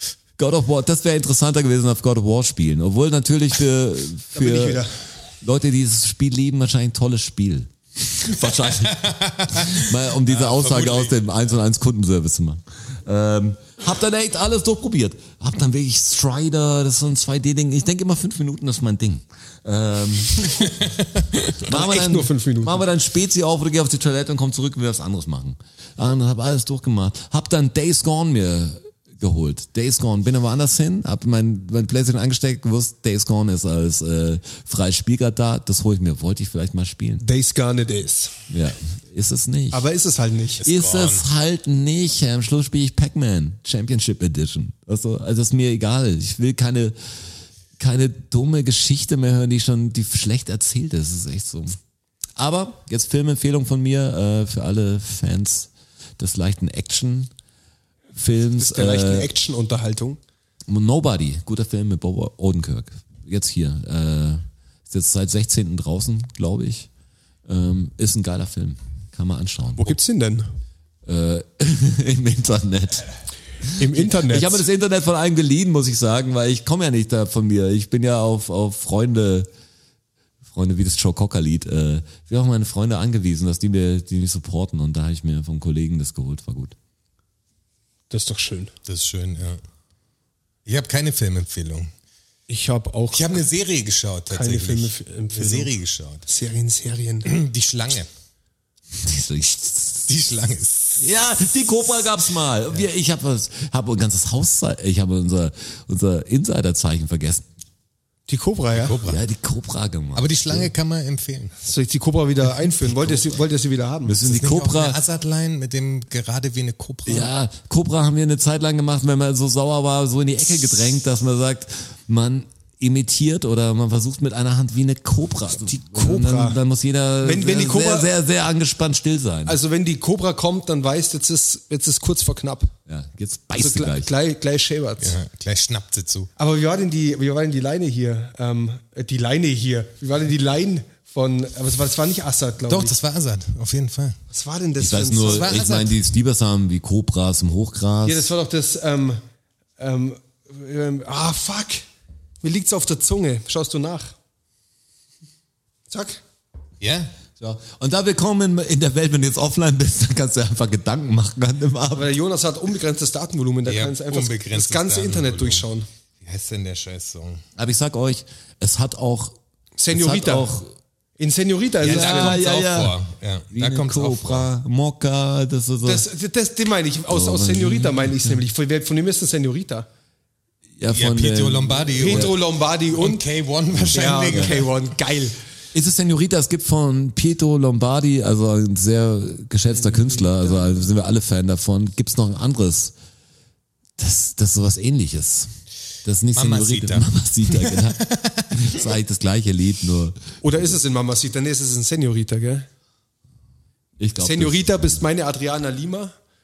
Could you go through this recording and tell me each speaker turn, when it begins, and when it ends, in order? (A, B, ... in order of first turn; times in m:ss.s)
0:00.4-0:04.8 A
0:04.3-0:04.9 B
0:05.4-0:20.8 A
0:08.7-0:11.1 C
0:21.6-0:37.2 A
0:21.6-0:22.8 B
0:37.2-0:38.4 B
0:38.5-0:39.8 A
0:39.7-0:40.6 B
0:40.6-0:41.2 C
0:40.6-0:47.0 A
0:47.8-0:51.8 A
0:52.4-0:57.3 A
0:58.1-0:59.3 A
0:58.6-1:00.2 B
1:00.7-1:06.9 A
1:07.5-1:10.0 A
1:09.8-1:10.5 B
1:11.0-1:13.1 A
1:13.7-1:19.5 A
1:13.8-1:14.6 B
1:20.5-1:26.7 A
1:28.1-1:28.7 B
1:28.9-1:29.6 C
1:30.6-1:31.9 C
1:32.5-1:33.4 B
1:33.1-1:36.2 C
1:34.3-1:35.7 B
1:36.2-1:37.3 B
1:37.2-1:38.1 C
1:38.9-1:40.1 A
1:40.1-1:41.1 C
1:41.0-1:47.4 A
1:48.3-1:49.0 B
1:48.7-1:49.2 C
1:49.0-1:50.7 A
1:50.1-1:51.5 C
1:51.6-1:54.1 B
1:54.0-1:55.0 A
1:54.2-1:57.3 C
1:57.0-2:09.6 A
2:05.6-2:06.6 B
2:07.2-2:08.1 B
2:09.4-2:12.7 B
2:12.9-2:14.1 A
2:13.6-2:15.2 B
2:15.0-2:16.3 C
2:16.4-2:22.9 B
2:22.7-2:24.2 C
2:24.3-2:25.5 B
2:24.8-2:28.3 A
2:25.2-2:25.9 C
2:28.0-2:29.2 B
2:29.8-2:31.8 B
2:32.4-2:34.2 B
2:35.9-2:36.2 B
2:36.8-2:37.1 C
2:37.4-2:42.1 A
2:41.9-2:45.9 B
2:43.6-2:45.6 C
2:46.2-2:47.4 C
2:47.6-2:49.4 A
2:49.8-2:50.5 B
2:49.9-2:50.7 A
2:51.2-2:52.4 B
2:51.8-2:52.9 A
2:51.8-2:54.5 C
2:53.5-2:56.0 A
2:55.8-2:59.9 B
2:57.1-2:58.4 A
3:00.8-3:02.3 A
3:00.9-3:04.7 C
3:01.9-3:03.2 B
3:03.7-3:04.5 A
3:03.9-3:05.4 B
3:05.7-3:12.9 A
3:14.0-3:15.5 A
3:16.0-3:20.2 A
3:16.3-3:18.8 C
3:20.4-3:22.6 B
3:24.0-3:25.0 A
3:24.2-3:26.1 B